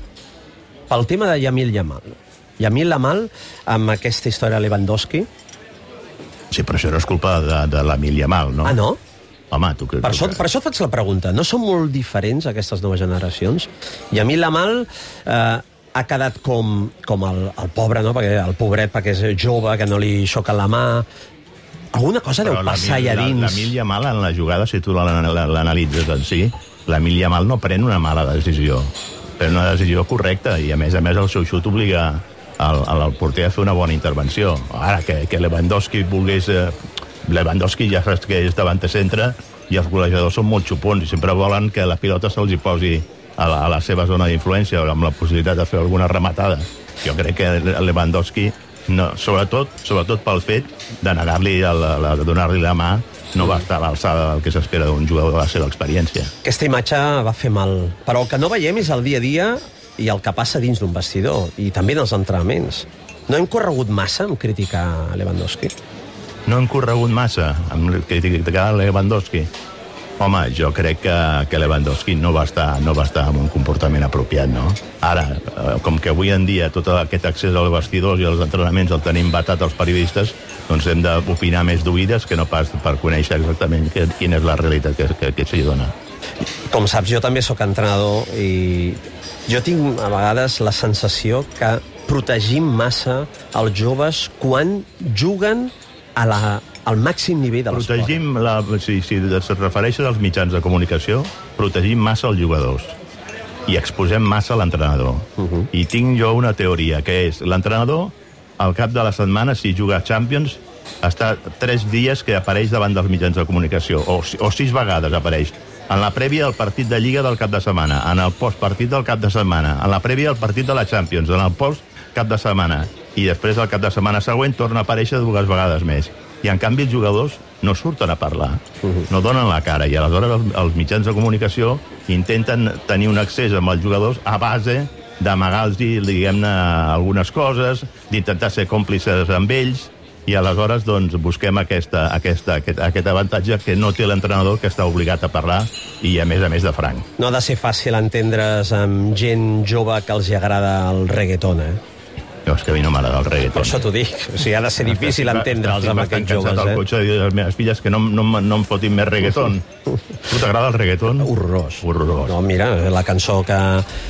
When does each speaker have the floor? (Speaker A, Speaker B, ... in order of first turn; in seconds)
Speaker A: 0.9-5.3, 8.6-9.0, 10.0-21.1, 21.9-23.8, 56.4-65.7, 86.7-98.2, 105.4-105.7, 147.2-151.8, 153.5-156.8, 161.2-163.8
Speaker B: 6.5-8.8, 9.5-10.4, 22.4-56.3, 66.5-69.5, 70.2-85.9, 97.7-103.0, 103.7-147.1, 152.4-153.8, 154.8-159.7, 160.2-161.3, 161.8-162.3